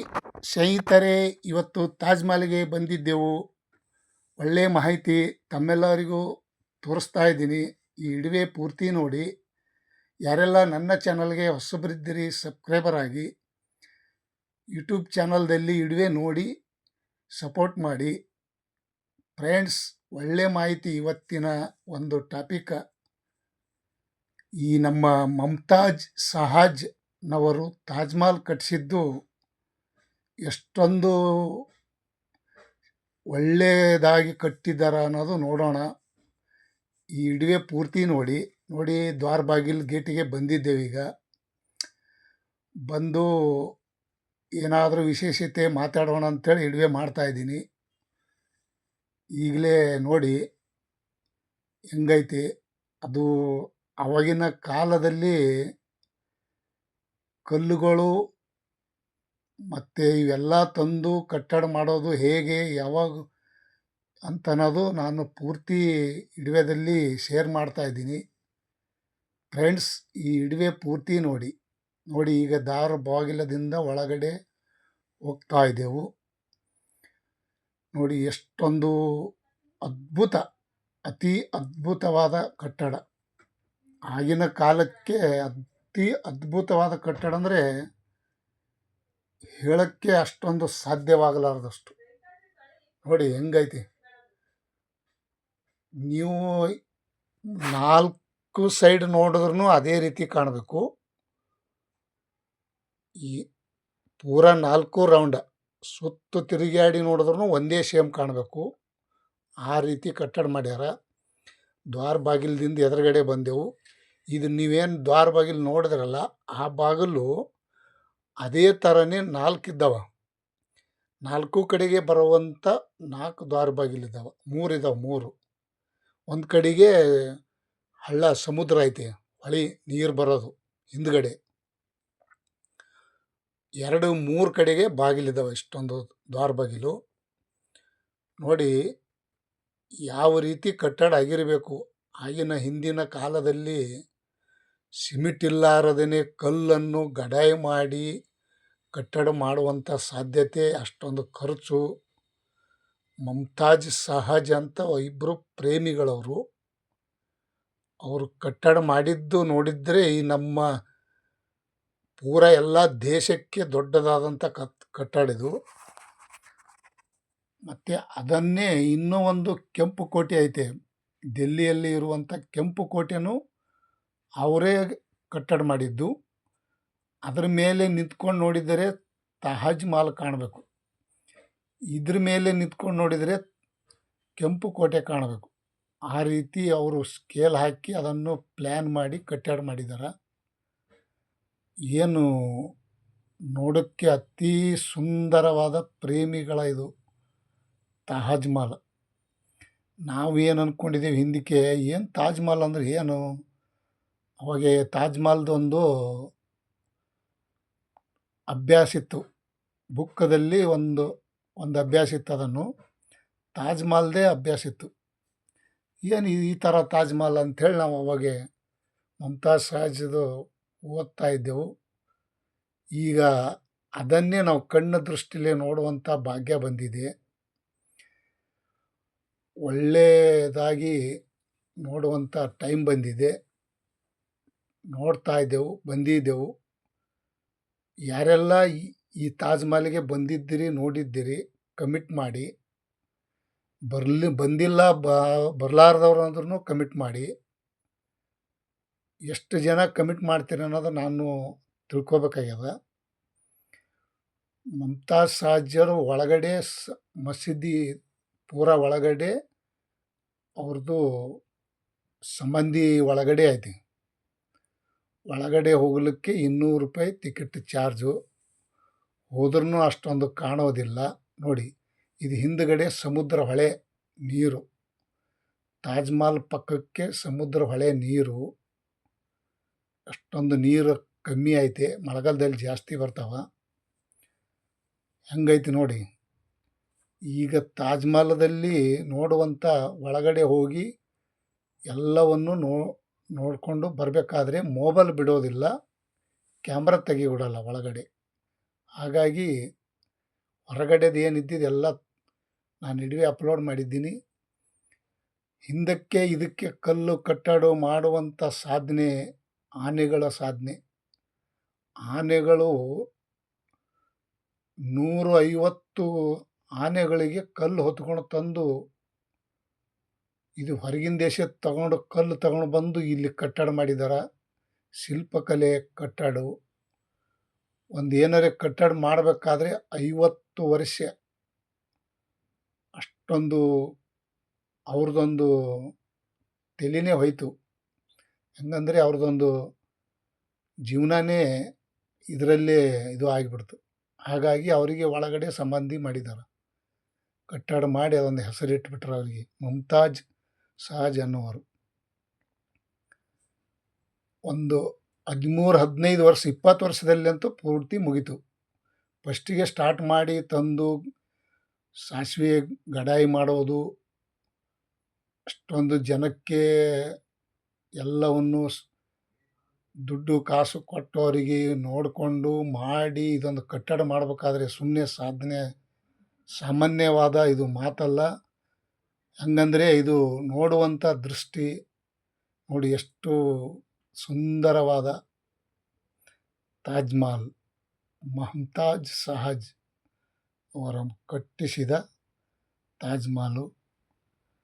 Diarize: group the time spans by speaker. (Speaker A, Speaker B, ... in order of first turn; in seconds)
Speaker A: 0.5-3.3, 4.4-6.2, 6.8-9.3, 10.3-13.3, 14.7-16.5, 17.4-18.1, 19.4-22.8, 24.6-29.0, 30.5-31.6, 33.3-35.9, 37.2-41.0, 42.9-43.7, 44.6-47.6, 49.4-50.4, 51.9-52.4, 53.0-55.4, 57.5-58.1, 59.7-63.2, 64.3-65.8, 66.3-68.2, 69.5-71.5, 72.1-74.3, 75.3-76.1, 77.9-78.9, 79.8-80.4, 81.1-83.0, 84.1-87.6, 89.6-92.0, 93.0-93.8, 96.0-96.5, 97.7-100.8, 104.2-108.6, 109.7-110.9, 111.9-113.7, 114.3-117.3, 118.4-120.0, 121.2-125.3, 126.3-126.9, 128.1-131.3, 133.8-136.9, 138.4-138.7, 140.1-143.8, 145.0-148.1, 148.9-151.8, 153.2-156.4, 158.0-160.6, 162.2-165.5, 167.7-170.7, 171.4-173.3, 174.4-176.1, 177.3-178.9, 179.4-180.6, 181.9-183.4, 184.4-185.5, 186.1-190.1, 191.9-192.7, 193.5-196.9, 198.1-198.8, 200.1-203.2, 204.4-205.8, 208.5-209.2, 210.0-211.1, 211.6-212.7, 213.6-214.9, 216.1-218.4, 219.2-220.2, 220.9-221.6, 223.0-223.3, 224.0-227.1, 229.7-230.9, 231.8-233.3, 234.9-236.5, 238.1-238.7, 239.2-242.5, 243.9-247.3, 249.3-251.3, 251.9-252.7, 254.8-256.7, 257.2-257.8, 258.5-259.3, 260.6-261.4, 262.4-263.8, 265.3-268.1, 269.3-271.7, 272.2-273.7, 274.3-274.6, 275.8-278.4, 280.1-283.4, 285.3-286.0, 287.3-290.9, 291.9-295.7, 296.7-298.1, 299.0-299.5, 300.7-301.9, 302.8-304.1, 305.7-309.1, 309.8-310.8, 312.1-312.7, 314.9-316.1, 316.8-318.7, 320.6-324.2, 325.0-326.5, 327.9-331.1, 333.0-333.6, 334.9-335.5, 336.8-337.5, 338.6-339.5, 340.9-341.4, 342.3-346.5, 347.5-350.2, 350.8-351.6, 354.5-354.8, 355.3-358.4, 359.2-360.9, 362.0-363.8, 365.5-367.1, 368.0-368.6, 370.1-375.6, 376.6-378.2, 379.4-381.7, 382.7-385.1, 386.9-387.5, 388.4-389.7, 390.8-392.0, 393.0-393.7